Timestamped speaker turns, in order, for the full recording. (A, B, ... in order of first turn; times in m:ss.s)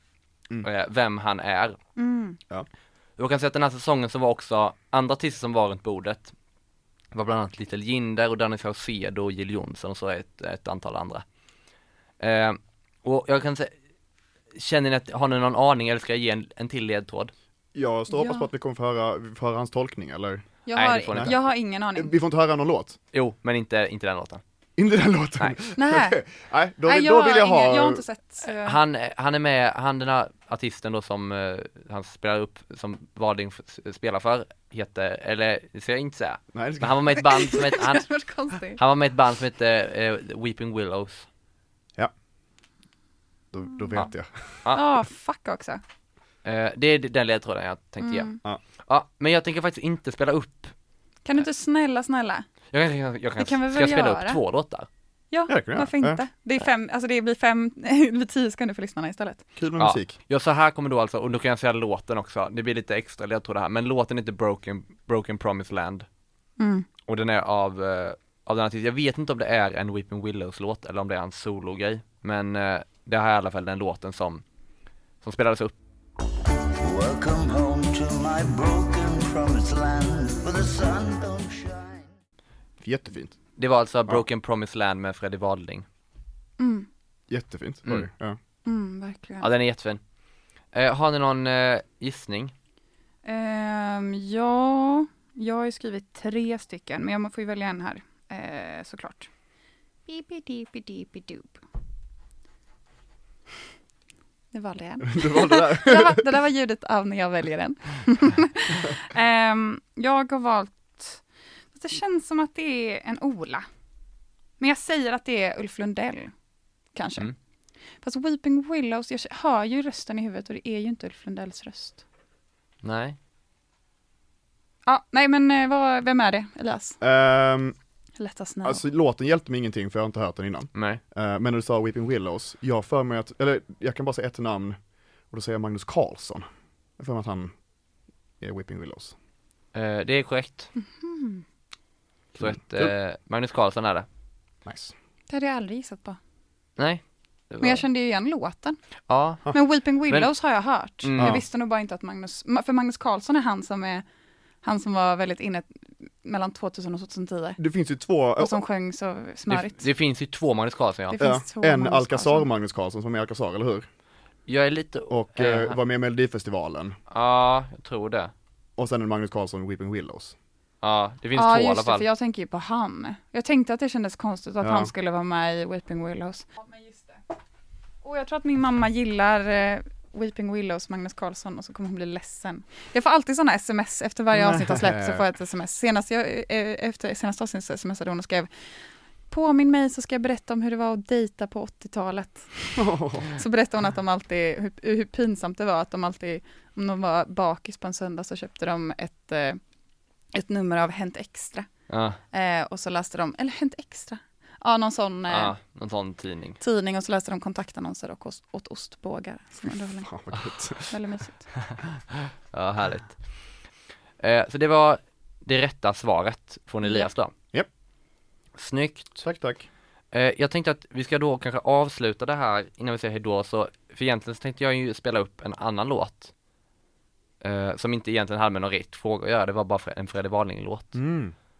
0:00.6-0:01.8 A
0:02.0-0:02.4 B
0:03.2-0:06.3 A
0:07.1-0:11.2 A
0:12.2-0:13.7 A
0:14.5-0:17.3 A
0:17.7-0:20.4 C
0:18.1-0:18.5 B
0:20.6-0:22.1 B
0:20.7-0:21.3 A
0:21.1-0:21.4 C
0:22.0-0:23.0 C
0:23.1-0:24.4 A
0:24.8-0:28.0 C
0:25.7-0:26.3 B
0:26.8-0:28.8 B
0:28.4-0:38.0 A
0:36.5-0:37.2 C
0:37.3-0:38.8 B
0:38.8-0:41.3 A
0:43.5-0:44.6 C
0:44.7-0:45.8 B
0:46.4-0:48.3 A
0:48.0-0:48.4 B
0:48.8-0:50.7 A
0:51.2-0:52.4 B
0:52.7-0:54.9 A
0:53.4-0:54.4 B
0:55.3-0:59.4 B
0:55.5-0:56.2 C
0:59.6-1:00.1 C
0:59.8-1:06.0 A
1:06.6-1:06.9 B
1:07.0-1:14.4 A
1:15.2-1:15.7 A
1:16.8-1:22.0 D
1:22.8-1:23.4 C
1:23.6-1:25.8 A
1:26.6-1:26.9 B
1:27.3-1:28.4 C
1:28.6-1:29.5 B
1:29.4-1:30.0 A
1:30.7-1:32.5 A
1:33.2-1:39.3 B
1:40.1-1:41.6 B
1:44.5-1:51.2 B
1:45.0-1:46.2 C
1:51.7-1:53.6 B
1:54.6-1:56.3 B
1:56.9-1:57.3 B
1:58.0-2:02.0 B
2:02.8-2:03.2 A
2:04.8-2:07.0 B
2:07.0-2:07.8 C
2:08.2-2:08.8 B
2:08.6-2:14.8 C
2:10.7-2:11.0 A
2:15.3-2:16.4 C
2:17.0-2:17.5 C
2:18.4-2:19.1 C
2:19.7-2:20.7 A
2:20.8-2:21.4 B
2:22.4-2:24.0 A
2:22.4-2:22.9 C
2:24.6-2:24.9 C
2:25.3-2:26.2 B
2:26.8-2:27.8 A
2:27.6-2:28.8 B
2:29.1-2:29.5 A
2:29.5-2:34.0 B
2:31.0-2:31.4 A
2:31.2-2:31.4 C
2:34.6-2:37.6 B
2:37.6-2:38.6 C
2:38.4-2:39.8 B
2:39.5-2:41.2 A
2:41.1-2:42.5 B
2:41.2-2:43.9 C
2:44.5-2:45.8 A
2:45.1-2:47.0 C
2:47.1-2:48.3 A
2:48.8-2:50.3 C
2:50.8-2:52.0 A
2:51.3-2:57.2 B
2:54.6-2:54.9 C
2:58.0-3:08.5 B
3:04.3-3:05.2 C
3:09.3-3:19.6 B
3:12.8-3:13.4 C
3:20.3-3:21.7 B
3:21.9-3:22.2 A
3:22.3-3:25.5 B
3:25.3-3:26.6 A
3:26.6-3:31.5 B
3:30.0-3:30.9 C
3:32.5-3:33.3 A
3:34.2-3:37.3 A
3:36.8-3:37.1 B
3:38.6-3:39.2 A
3:39.2-3:39.7 C
3:40.1-3:46.3 A
3:47.4-3:51.0 A
3:50.9-3:51.3 C